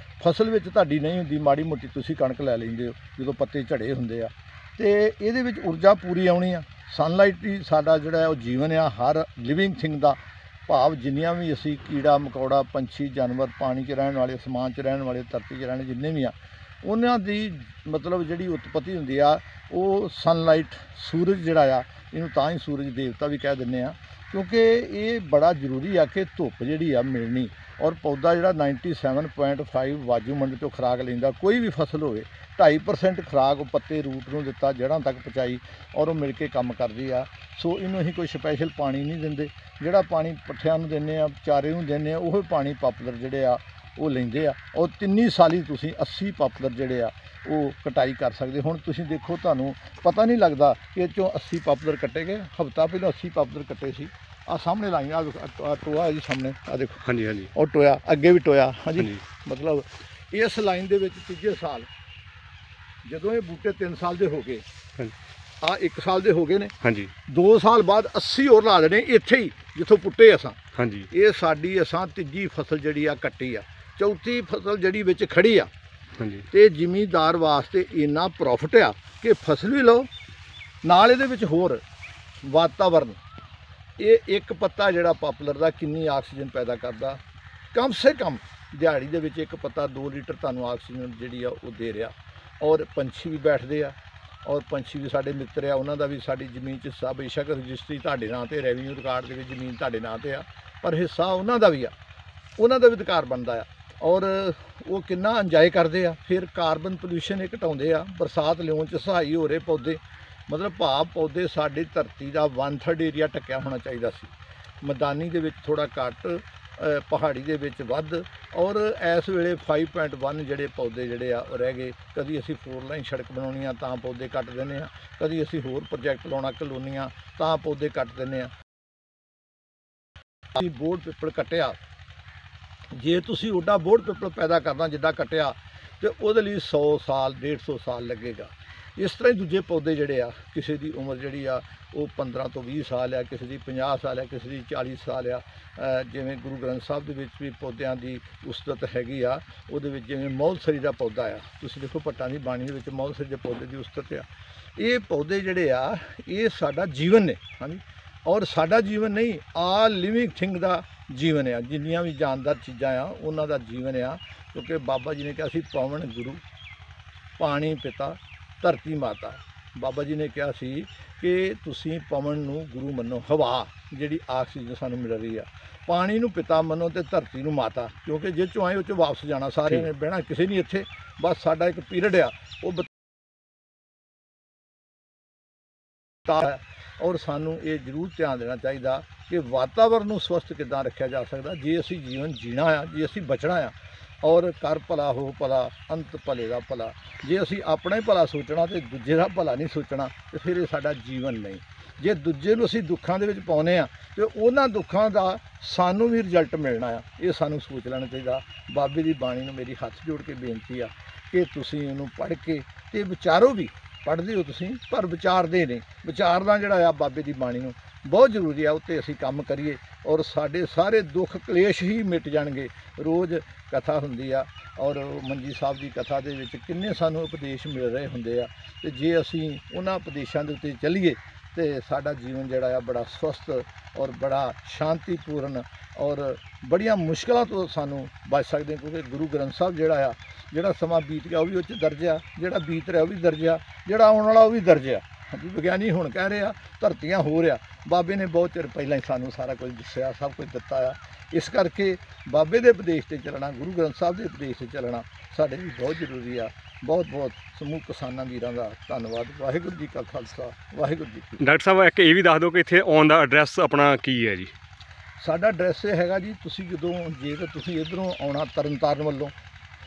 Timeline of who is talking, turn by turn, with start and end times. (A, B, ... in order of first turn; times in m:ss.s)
0:00.2-1:01.9 A
0:57.0-0:57.5 B
1:03.0-1:04.6 A
1:05.6-1:06.7 A
1:06.8-1:07.1 B
1:07.3-1:10.6 A
1:10.8-1:11.1 B
1:11.1-1:15.7 A
1:16.2-1:16.4 B
1:16.5-1:20.1 A
1:20.8-1:21.8 A
1:22.4-1:23.2 A
1:24.0-1:27.2 A
1:27.7-1:41.9 A
1:42.6-2:08.5 A
2:10.5-2:11.8 A
2:12.9-2:46.4 A
2:47.4-3:02.9 A
3:06.2-4:21.4 A
4:21.4-4:24.5 B
4:25.2-4:29.3 A